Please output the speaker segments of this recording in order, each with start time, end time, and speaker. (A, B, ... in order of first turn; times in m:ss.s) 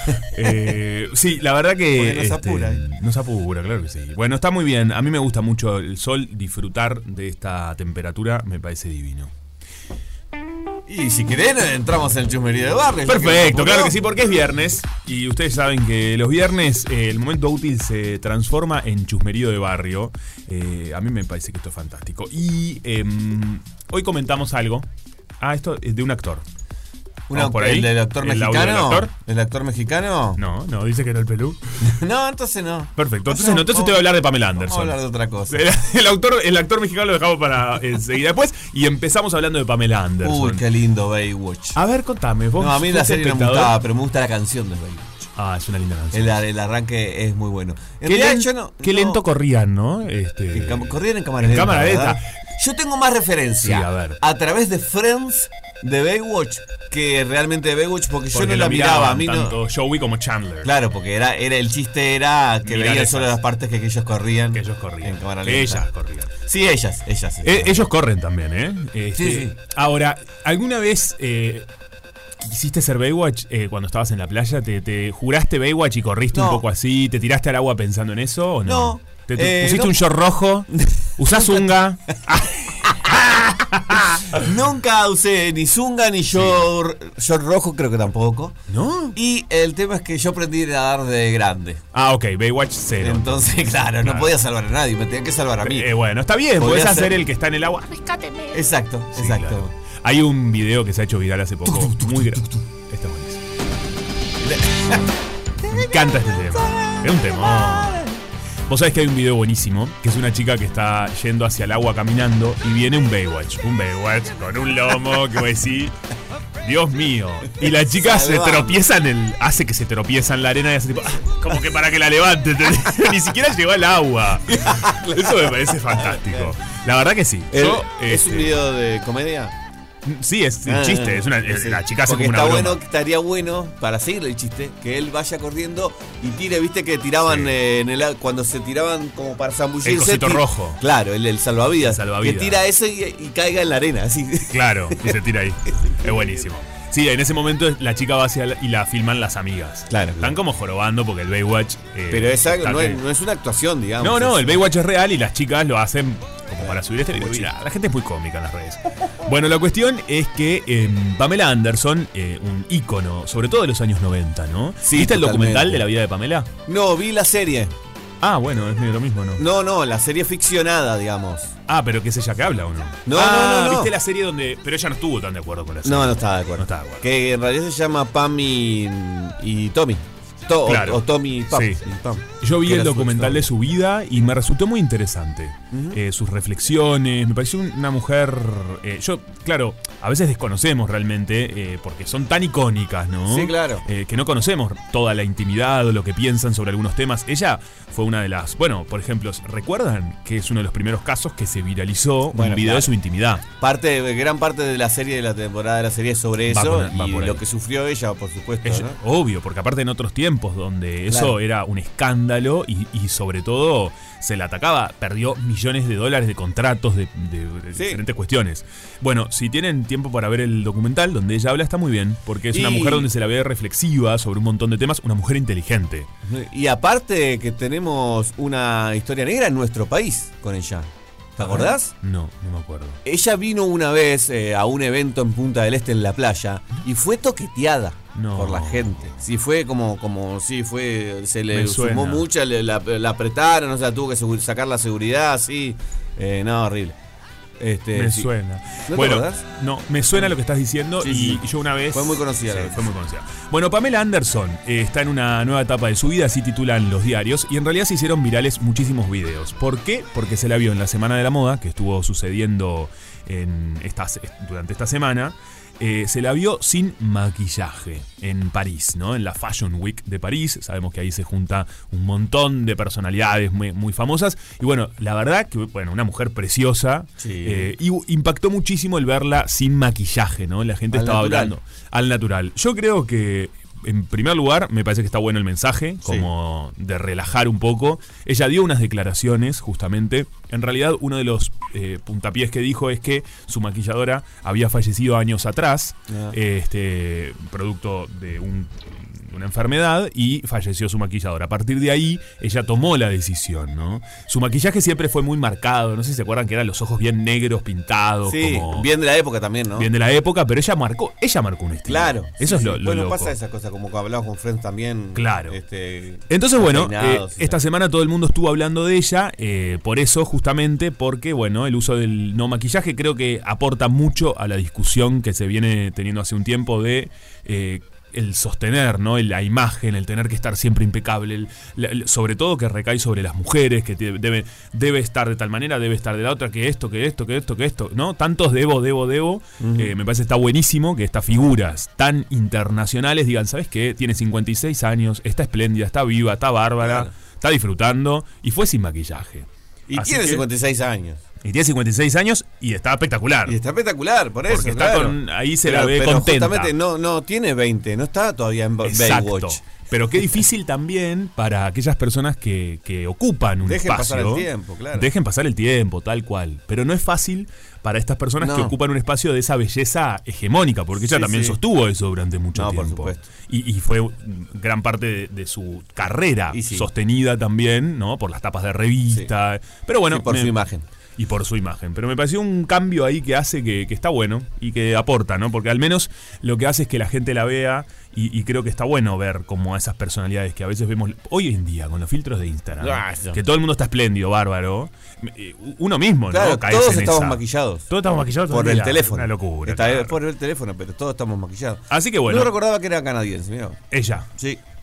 0:00.3-0:09.3 A
0:01.9-0:02.8 B
0:10.9-0:13.9 B
0:13.0-0:24.8 A
0:25.4-0:26.4 A
0:27.3-0:30.4 B
0:27.3-0:29.1 A
0:30.4-0:31.9 A
0:31.8-0:35.6 B
0:33.0-0:35.0 A
0:35.5-0:40.6 A
0:40.2-0:41.8 B
0:41.7-0:43.7 A
0:42.6-0:45.3 B
0:45.4-0:46.4 A
0:46.1-0:49.2 B
0:48.0-0:52.3 A
0:50.5-0:59.6 B
0:53.6-0:54.2 A
0:58.3-1:00.7 A
1:00.6-1:05.8 B
1:02.6-1:03.4 A
1:04.5-1:06.3 A
1:06.4-1:07.9 B
1:07.4-1:11.7 A
1:09.2-1:09.5 B
1:12.4-1:24.4 A
1:16.3-1:16.6 B
1:18.6-1:19.9 B
1:20.7-1:21.8 B
1:22.8-1:28.6 B
1:26.3-1:26.7 A
1:28.7-1:29.2 A
1:29.1-1:31.8 B
1:31.9-1:34.3 A
1:33.0-1:35.9 B
1:35.6-1:38.5 A
1:36.6-1:37.1 B
1:38.5-1:39.7 B
1:39.1-1:43.4 A
1:41.6-1:42.5 B
1:44.4-1:45.0 B
1:45.7-1:48.1 A
1:45.7-1:48.1 B
1:48.7-1:55.9 A
1:56.6-2:08.6 A
1:57.7-1:58.8 B
2:04.5-2:06.5 B
2:07.5-2:09.5 B
2:10.0-2:12.8 A
2:10.6-2:25.1 B
2:17.2-2:17.5 A
2:19.8-2:20.8 A
2:21.8-2:22.6 A
2:24.5-2:33.0 A
2:25.8-2:26.4 B
2:29.9-2:30.4 B
2:32.1-2:34.6 B
2:34.0-2:46.5 A
2:36.6-2:37.5 B
2:44.8-2:45.8 B
2:46.7-2:47.7 B
2:48.2-2:49.4 A
2:49.4-2:51.5 B
2:51.7-2:57.1 A
2:53.0-2:53.9 B
2:55.8-3:03.5 B
3:00.6-3:01.8 A
3:02.4-3:23.4 A
3:05.7-3:06.0 B
3:13.3-3:13.8 B
3:22.3-3:22.9 B
3:23.6-3:29.0 B
3:26.5-3:27.4 A
3:28.6-3:46.1 A
3:31.1-3:31.3 B
3:37.7-3:38.0 B
3:42.5-3:43.1 B
3:46.2-3:51.9 B
3:51.4-3:53.0 A
3:53.0-4:07.0 B
3:58.1-3:58.9 A
4:01.5-4:02.2 A
4:07.6-4:08.3 B
4:07.9-5:08.9 A
4:08.8-4:09.4 B
4:11.0-4:12.9 B
4:37.2-4:37.7 B
4:40.9-4:41.5 B
4:56.1-4:56.4 B
5:08.2-5:09.9 B
5:09.7-5:13.3 A
5:11.8-5:17.6 B
5:15.1-5:15.6 A
5:16.3-5:50.4 A
5:39.6-5:39.9 B
5:46.8-5:47.1 B
5:49.9-5:51.2 B
5:51.4-5:53.6 A
5:53.4-5:59.6 B
5:54.5-5:56.7 A
5:58.8-6:20.5 A
6:03.6-6:05.1 B
6:08.4-6:08.7 B
6:11.0-6:11.6 B
6:12.5-6:13.2 B
6:16.5-6:16.9 B
6:20.1-6:20.8 B
6:21.2-6:40.2 A
6:32.8-6:33.4 B
6:36.3-6:37.8 B
6:38.5-6:43.8 B
6:41.9-6:42.5 A
6:43.9-6:44.3 A